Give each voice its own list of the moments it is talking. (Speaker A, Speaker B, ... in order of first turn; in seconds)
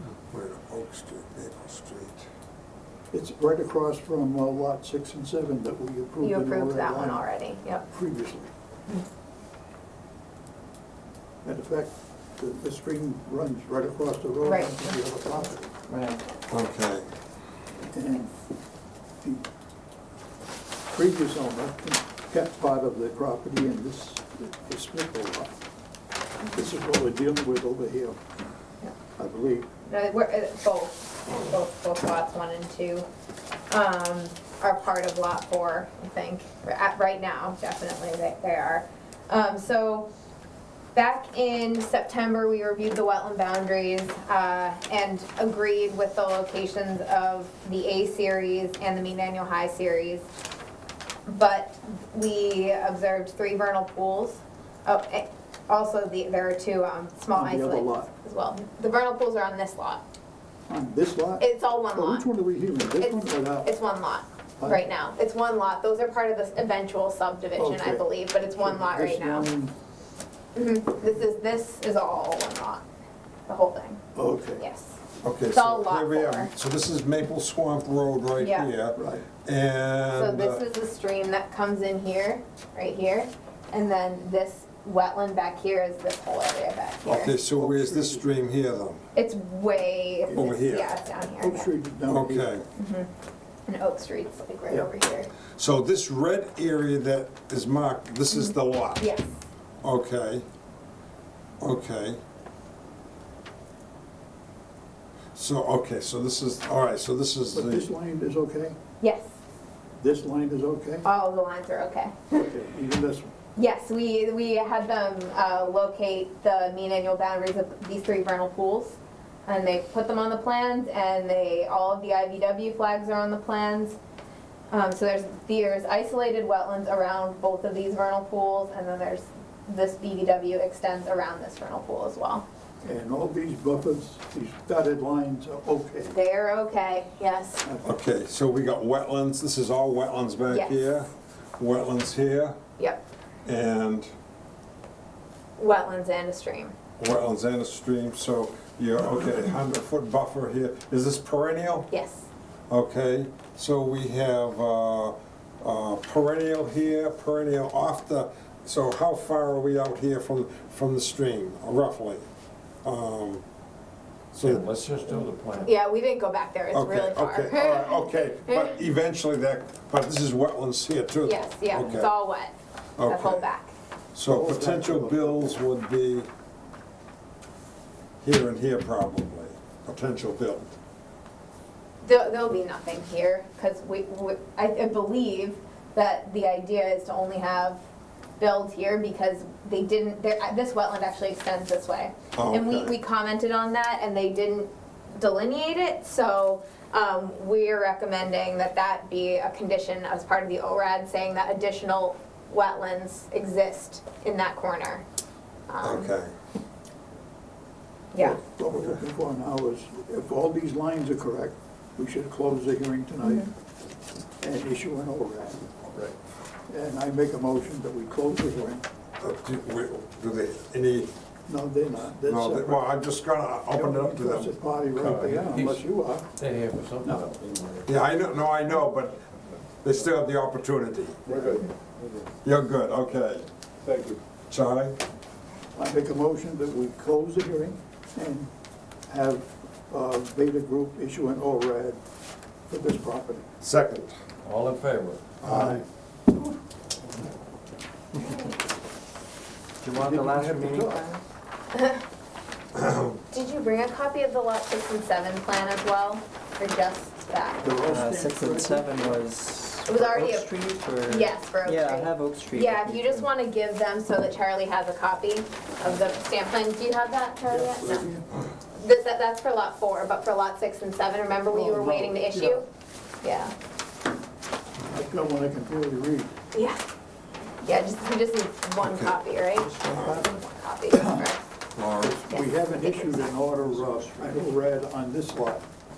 Speaker A: 0.3-2.2, 16.5-17.1, 75.2-80.6, 87.0-89.0, 90.3-90.9, 92.1-92.7, 95.6-99.1, 99.8-100.5, 101.6-102.2, 105.3-107.9, 137.8-142.6, 143.4-144.1, 147.0-151.9, 152.7-162.2, 162.8-163.4, 164.3-164.7, 166.7-172.1, 173.0-173.5, 174.2-176.3, 178.2-180.8, 192.4-192.9, 205.8-206.3, 219.2-221.1, 222.2-224.5, 227.9-229.2, 229.8-231.2, 232.4-233.5, 234.5-235.0, 243.6-244.2, 245.4-245.8, 252.8-253.2, 278.8-279.2, 281.8-282.1
Speaker B: 3.1-7.2, 7.9-8.5, 11.4-15.7, 17.9-18.3, 20.9-25.5, 26.5-28.2, 29.2-29.7, 57.3-58.1, 60.7-63.7, 64.6-64.9, 67.5-69.7, 74.2-74.6, 79.0-79.3, 87.3-88.4, 91.4-92.6, 107.5-108.8, 110.0-111.0, 112.3-113.3, 132.8-136.1, 137.7-137.9, 174.3-175.6, 208.2-213.5, 214.4-215.8, 216.7-218.8, 221.5-222.9, 223.7-226.3, 231.3-231.7, 235.8-238.5, 239.1-242.0, 242.7-243.5, 245.4-245.8, 249.9-251.1, 257.6-259.2, 267.5-268.3, 271.5-272.6, 274.9-276.3, 279.6-280.3, 280.9-281.3, 282.0-285.6
Speaker C: 6.2-7.8, 14.4-15.0, 29.9-33.1, 33.7-40.1, 40.9-50.3, 51.3-60.0, 61.4-62.3, 63.0-69.5, 70.5-72.8, 73.5-74.0, 74.6-75.0, 75.5-76.5, 78.4-78.7, 80.2-87.3, 89.2-91.7, 92.8-93.1, 93.7-95.3, 98.3-99.4, 109.0-109.3, 111.0-112.5, 113.6-124.0, 124.7-132.5, 136.1-137.6, 140.5-140.8, 142.8-143.0, 145.6-146.7, 151.9-152.3, 165.6-168.8, 171.2-173.7, 182.0-187.8, 188.4-205.0, 205.7-206.1, 208.1-208.4, 213.2-213.5, 251.7-252.0, 253.3-257.8, 259.9-260.5, 261.1-268.1, 268.8-272.7, 273.2-273.5, 276.5-276.8, 277.6-281.4, 282.3-283.3
Speaker D: 15.9-16.2, 249.8-251.2, 257.8-263.3
Speaker E: 164.4-165.7, 224.9-225.9, 226.4-228.0, 231.3-232.3, 233.8-234.2, 244.4-245.2